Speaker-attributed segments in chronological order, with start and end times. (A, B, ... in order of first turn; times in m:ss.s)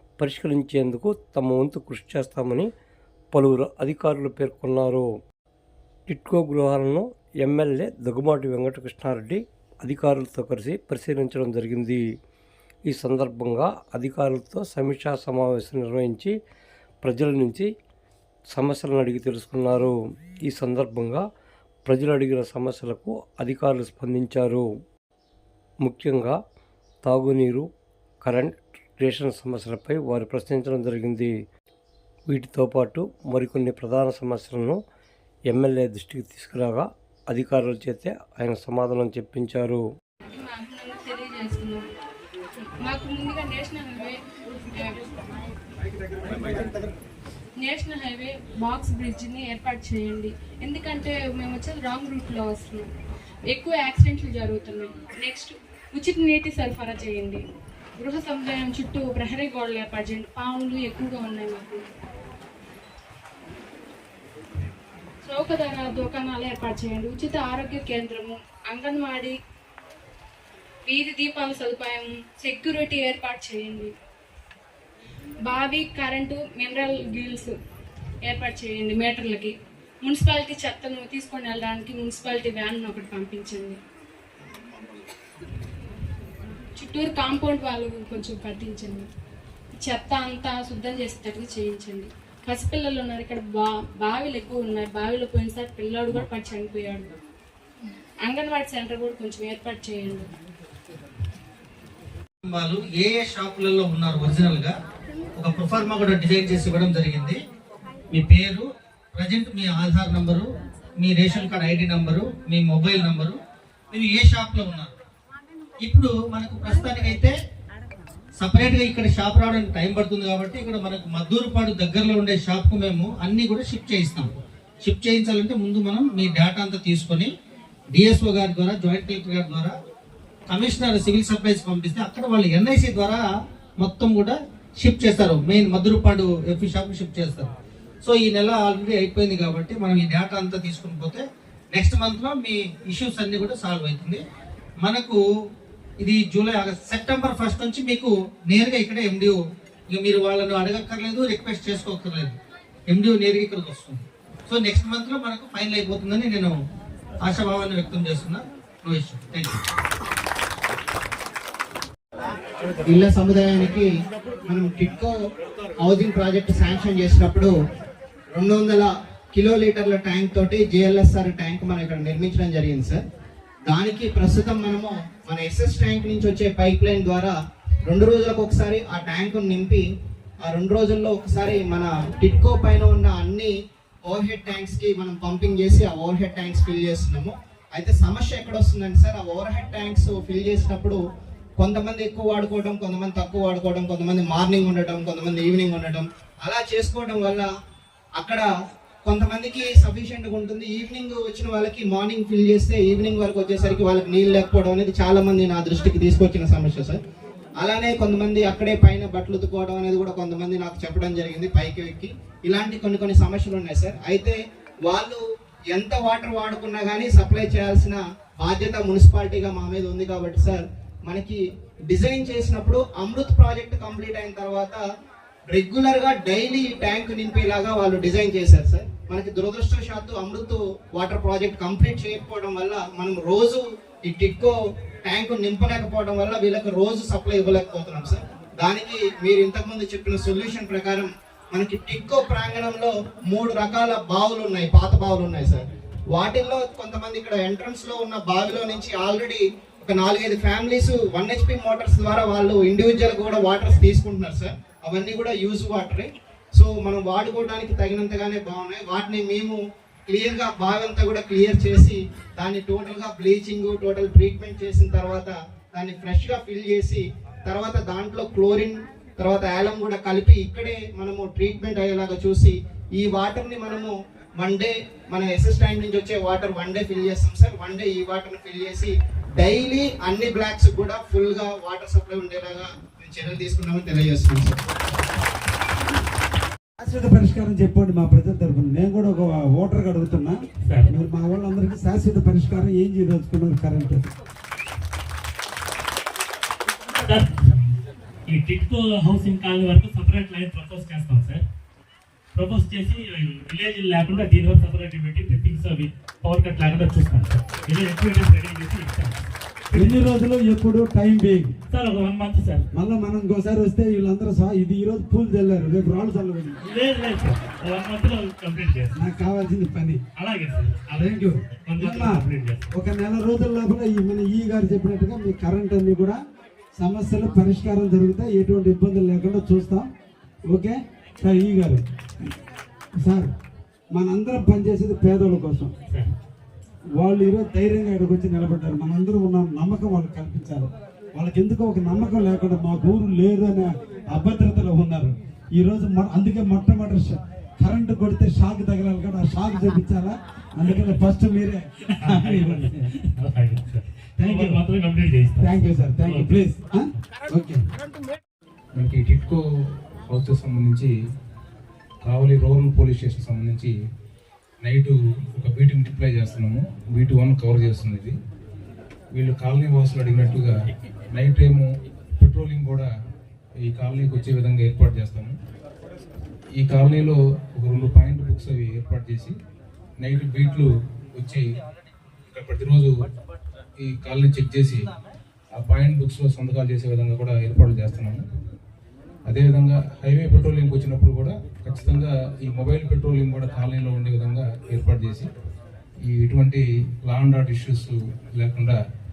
0:00.2-0:02.7 A
0:03.3-0:05.1 A
0:06.1-0:12.0 A
0:12.9-0:16.3 A
0:17.0-0:17.7 A
0:18.5-0:19.9 A
0:20.5-0:21.2 A
0:21.8-0:24.6 A
0:25.8-0:26.4 A
0:27.0-0:27.6 A
0:28.2-0:31.3 A
0:32.3-0:34.8 A
0:35.5-0:39.8 A
0:40.3-0:41.8 B
0:42.8-0:44.2 B
0:44.7-0:45.0 B
0:46.3-0:46.7 B
0:47.6-0:52.9 B
0:53.5-0:57.4 B
0:58.0-1:01.8 B
1:05.2-1:09.3 B
1:10.8-1:13.9 B
1:15.4-1:17.5 B
1:18.2-1:23.8 B
1:26.8-1:29.0 B
1:29.8-1:37.1 B
1:38.2-1:40.2 B
1:42.4-1:44.7 C
1:45.4-1:47.4 C
1:48.1-1:50.5 C
1:51.0-1:53.4 C
1:53.9-1:54.9 C
1:55.8-1:57.3 C
1:58.4-2:04.3 C
2:04.8-2:07.3 C
2:07.9-2:09.7 C
2:10.5-2:13.2 C
2:13.8-2:17.5 C
2:18.0-2:24.2 C
2:24.8-2:25.2 C
2:26.0-2:29.4 C
2:29.9-2:36.5 C
2:37.2-2:39.6 C
2:42.8-2:43.9 D
2:44.4-2:45.1 D
2:45.8-2:47.5 D
2:48.3-2:53.0 D
2:53.7-2:57.3 D
2:57.9-2:59.8 D
3:00.4-3:03.5 D
3:04.0-3:11.0 D
3:11.6-3:17.5 D
3:18.2-3:18.5 D
3:19.0-3:27.0 D
3:27.6-3:44.8 D
3:45.5-4:44.6 D
4:46.8-4:54.1 E
4:50.6-4:50.9 F
4:57.0-5:01.4 F
5:02.3-5:10.0 F
5:09.7-5:11.5 E
5:11.7-5:12.7 F
5:12.7-5:16.6 E
5:16.6-5:19.0 F
5:18.9-5:20.0 E
5:20.2-5:22.7 F
5:20.9-5:26.2 E
5:26.8-5:29.9 E
5:30.5-5:31.8 E
5:33.0-5:33.3 E
5:33.9-5:35.7 E
5:36.9-5:52.9 E
5:51.9-5:56.3 F
5:54.2-5:54.6 E
5:55.4-5:57.6 E
5:58.7-5:59.4 G
6:00.1-6:00.9 G
6:02.0-6:03.7 G
6:04.6-6:08.1 G
6:09.1-6:10.5 G
6:11.1-6:11.7 G
6:12.2-6:12.9 G
6:13.6-6:15.3 G
6:16.5-6:19.3 G
6:20.0-6:21.4 G
6:22.3-6:22.9 G
6:23.8-6:24.9 G
6:25.6-6:28.2 G
6:29.2-6:35.3 G
6:36.0-6:38.7 G